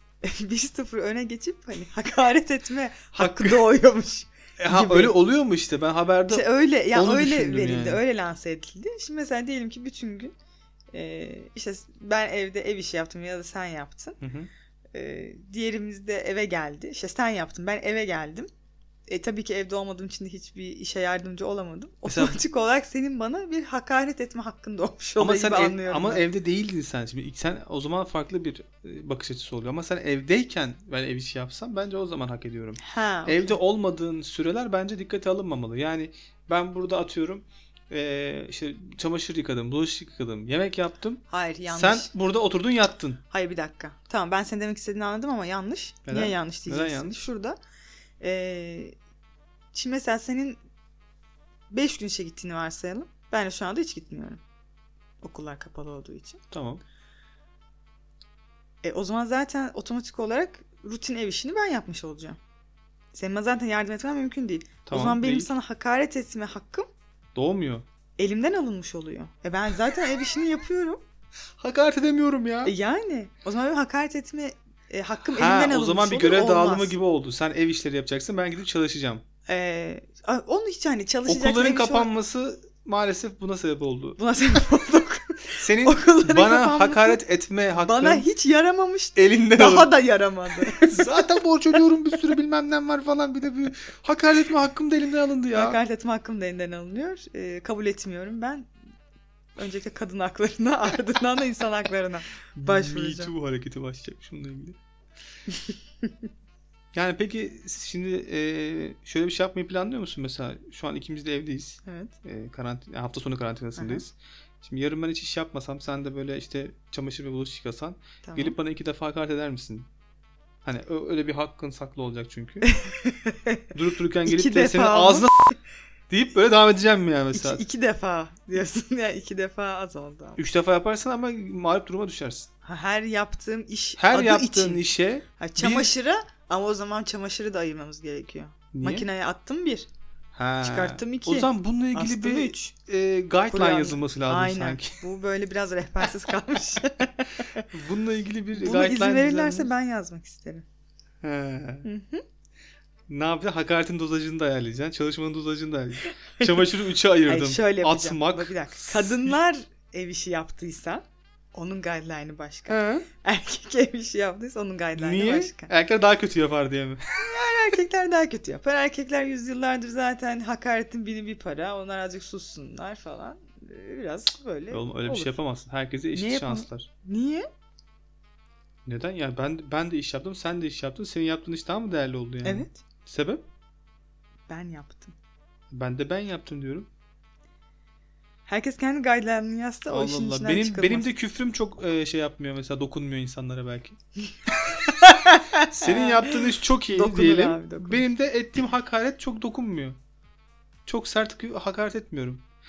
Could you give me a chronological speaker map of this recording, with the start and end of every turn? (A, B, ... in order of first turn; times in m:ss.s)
0:00.2-0:05.1 A
0:03.2-0:03.6 B
0:04.6-0:08.0 B
0:06.3-0:10.3 A
0:10.9-0:14.2 A
0:14.2-0:14.5 B
0:14.9-0:18.5 A
0:19.1-0:26.3 A
0:22.1-0:22.4 B
0:25.2-0:43.2 B
0:32.8-0:33.6 A
0:41.3-0:42.1 A
0:43.3-0:47.6 A
0:46.1-0:47.3 B
0:48.2-0:49.0 A
0:49.7-0:50.6 A
0:51.7-0:54.4 A
0:55.2-0:56.4 A
0:56.5-0:56.8 B
0:58.8-1:02.4 A
1:03.1-1:06.9 A
1:04.9-1:05.5 B
1:07.4-1:07.8 B
1:08.2-1:11.0 A
1:11.6-1:12.7 B
1:12.6-1:17.0 A
1:15.4-1:19.2 B
1:19.5-1:22.1 A
1:21.3-1:24.2 B
1:24.2-1:27.2 A
1:25.6-1:28.3 B
1:27.8-1:31.2 A
1:29.2-1:29.9 B
1:30.7-1:35.8 B
1:35.5-1:38.7 A
1:39.6-1:43.3 A
1:42.6-1:44.8 B
1:46.9-1:59.9 B
1:51.8-1:52.1 A
1:53.8-1:54.0 A
1:58.2-1:58.6 A
2:00.6-2:02.7 B
2:02.6-2:03.6 A
2:03.7-2:05.6 B
2:04.2-2:05.3 A
2:06.1-2:07.6 B
2:07.3-2:10.4 A
2:10.4-2:12.5 B
2:12.6-2:14.9 A
2:14.0-2:15.9 B
2:15.4-2:19.9 A
2:18.7-2:19.1 B
2:20.4-2:25.0 B
2:20.6-2:22.7 A
2:23.5-2:27.6 A
2:27.7-2:29.7 B
2:28.6-2:30.7 A
2:31.2-2:31.9 B
2:31.8-2:32.2 A
2:33.1-2:39.4 B
2:37.3-2:45.7 A
2:42.7-2:43.1 B
2:45.0-2:47.0 B
2:47.2-2:55.4 A
2:54.7-2:56.9 B
2:56.1-2:57.5 A
2:58.9-3:03.4 B
3:02.4-3:02.8 A
3:04.5-3:05.2 A
3:05.7-3:06.9 B
3:08.5-3:11.1 A
3:09.9-3:14.0 B
3:14.9-3:18.0 A
3:15.7-3:20.0 B
3:20.9-3:22.4 B